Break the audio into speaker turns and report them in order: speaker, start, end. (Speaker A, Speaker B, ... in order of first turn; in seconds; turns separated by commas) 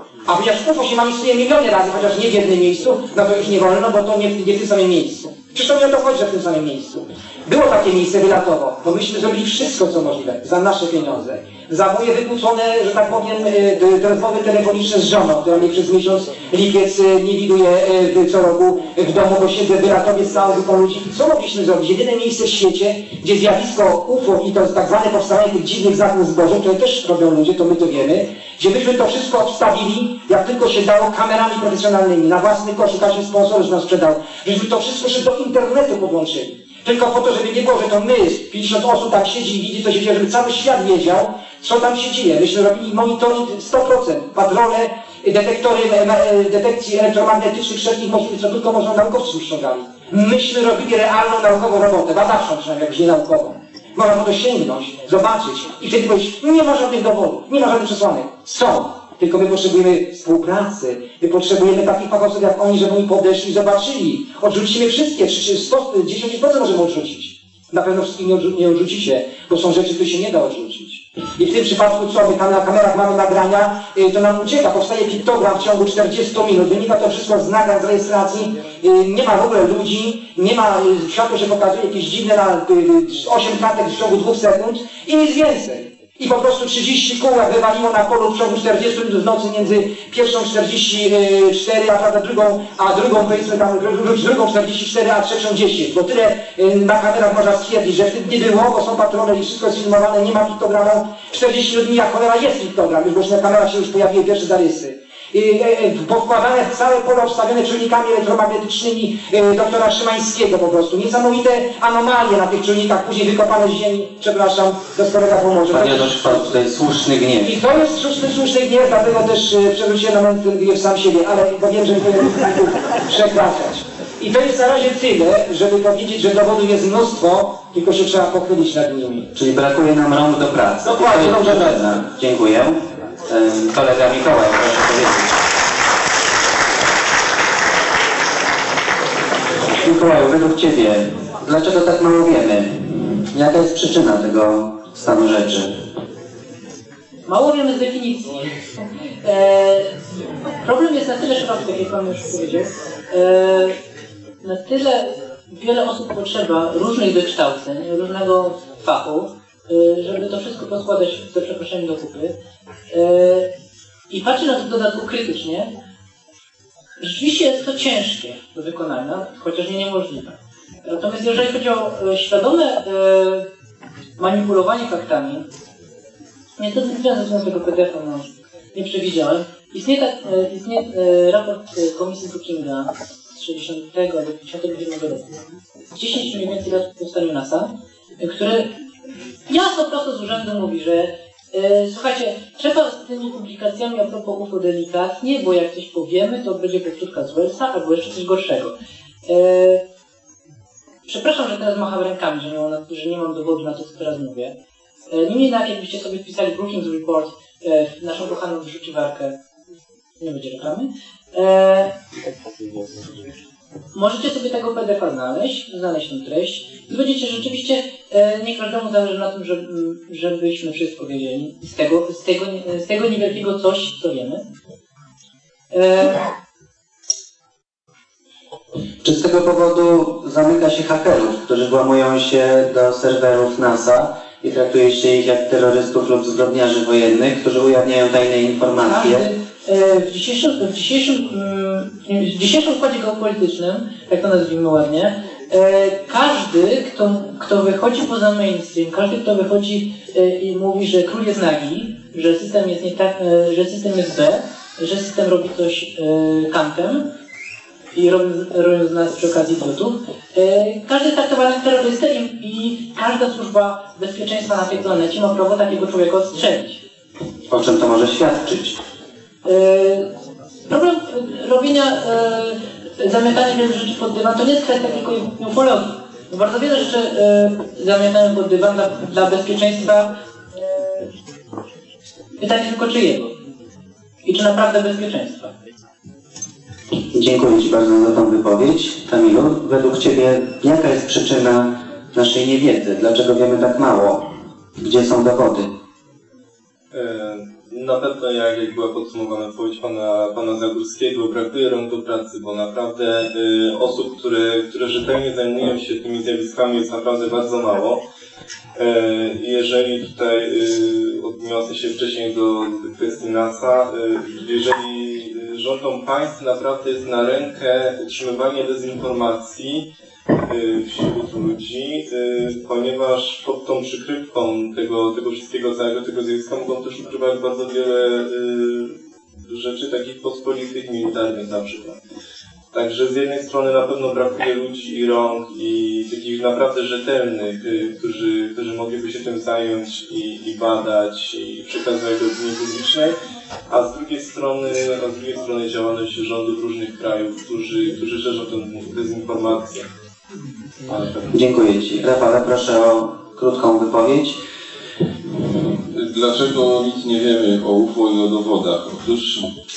Speaker A: 0.2-116.5, Speaker B: 115.7-117.5, Speaker A: 117.4-129.3, Speaker B: 129.3-135.3, Speaker A: 130.8-131.9, Speaker B: 139.8-145.7, Speaker C: 147.3-148.6, Speaker C: 149.2-149.9, Speaker C: 150.6-153.7, Speaker C: 154.4-162.3, Speaker C: 162.9-163.5, Speaker C: 164.1-165.7, Speaker C: 167.0-173.4, Speaker C: 174.2-175.4, Speaker C: 176.6-185.4, Speaker C: 185.9-188.7, Speaker C: 189.5-198.7, Speaker C: 199.2-199.8, Speaker C: 201.1-204.6, Speaker C: 205.1-209.3, Speaker C: 210.2-211.9, Speaker C: 213.9-224.4, Speaker C: 225.7-226.2, Speaker B: 229.0-239.3, Speaker C: 238.8-257.1, Speaker C: 257.9-266.8, Speaker B: 267.5-268.8, Speaker C: 269.4-270.1, Speaker C: 270.7-281.1, Speaker C: 282.4-283.3, Speaker C: 284.2-285.5, Speaker B: 287.1-294.3, Speaker B: 294.8-295.7, Speaker D: 296.9-308.0, Speaker D: 308.8-319.9, Speaker D: 320.4-332.0, Speaker D: 332.7-343.1, Speaker D: 343.7-349.9, Speaker D: 350.9-351.2, Speaker B: 351.3-354.4, Speaker E: 355.4-359.5